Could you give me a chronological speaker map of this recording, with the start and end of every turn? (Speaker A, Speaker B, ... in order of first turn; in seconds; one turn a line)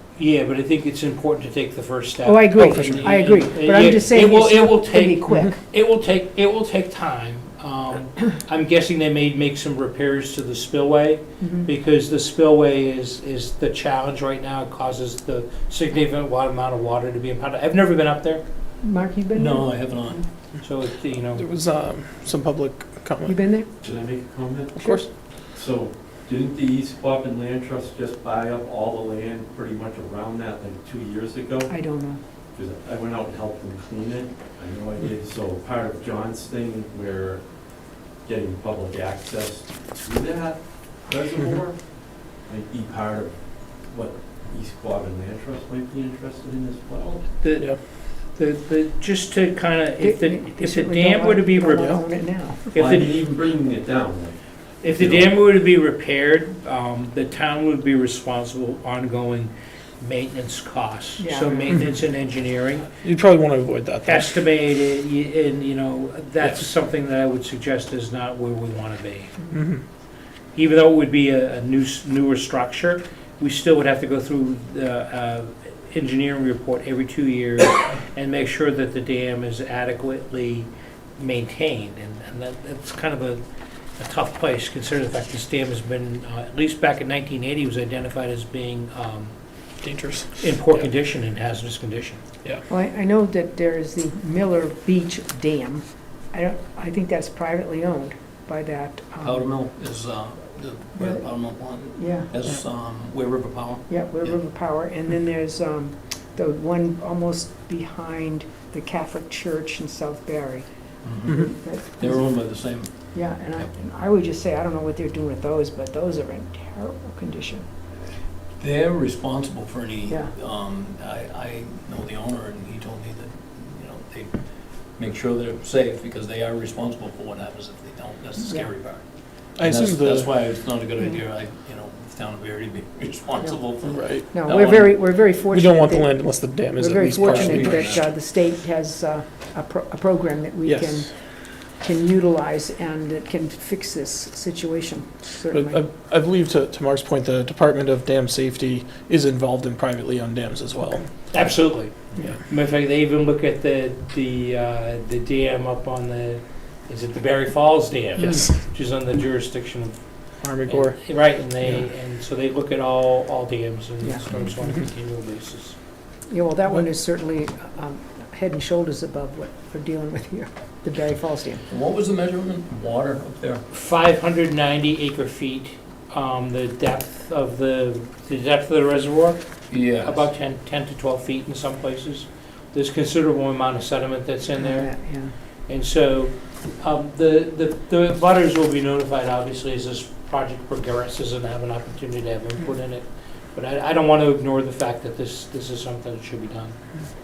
Speaker A: 0.2-18.4
Speaker B: 2.2-5.6
Speaker C: 2.6-3.2
Speaker B: 11.4-11.7
Speaker B: 18.8-20.2
Speaker D: 19.4-19.9
Speaker A: 20.6-21.4
Speaker C: 21.3-23.4
Speaker B: 23.2-23.7
Speaker E: 23.8-24.9
Speaker B: 24.8-25.1
Speaker C: 24.8-25.1
Speaker E: 25.5-31.7
Speaker B: 31.7-32.2
Speaker E: 32.5-37.4
Speaker E: 38.2-41.8
Speaker E: 42.4-43.4
Speaker E: 43.9-47.2
Speaker A: 47.4-47.8
Speaker A: 48.3-52.0
Speaker B: 50.0-52.8
Speaker A: 52.7-53.1
Speaker E: 52.7-55.3
Speaker A: 54.8-62.9
Speaker B: 61.2-61.8
Speaker C: 63.0-64.3
Speaker A: 64.0-69.3
Speaker C: 69.5-69.8
Speaker A: 70.5-83.4
Speaker A: 84.0-89.3
Speaker C: 89.8-90.9
Speaker A: 90.4-92.2
Speaker B: 92.7-99.5
Speaker D: 99.3-103.8
Speaker B: 101.0-101.2
Speaker B: 101.8-102.3
Speaker B: 103.9-110.6
Speaker B: 111.3-117.7
Speaker D: 112.0-113.6
Speaker D: 118.6-124.4
Speaker B: 120.1-120.3
Speaker D: 124.9-129.0
Speaker C: 129.6-130.3
Speaker D: 129.7-133.9
Speaker B: 133.4-141.1
Speaker C: 133.9-134.2
Speaker D: 134.5-134.9
Speaker C: 135.5-137.9
Speaker D: 137.2-138.0
Speaker C: 140.7-141.1
Speaker B: 141.8-145.8
Speaker C: 145.5-151.1
Speaker A: 151.3-165.8
Speaker C: 158.2-158.5
Speaker C: 160.4-161.0
Speaker B: 166.3-171.6
Speaker D: 171.7-173.6
Speaker A: 173.7-185.1
Speaker D: 179.7-180.1
Speaker B: 184.6-185.3
Speaker A: 185.7-196.7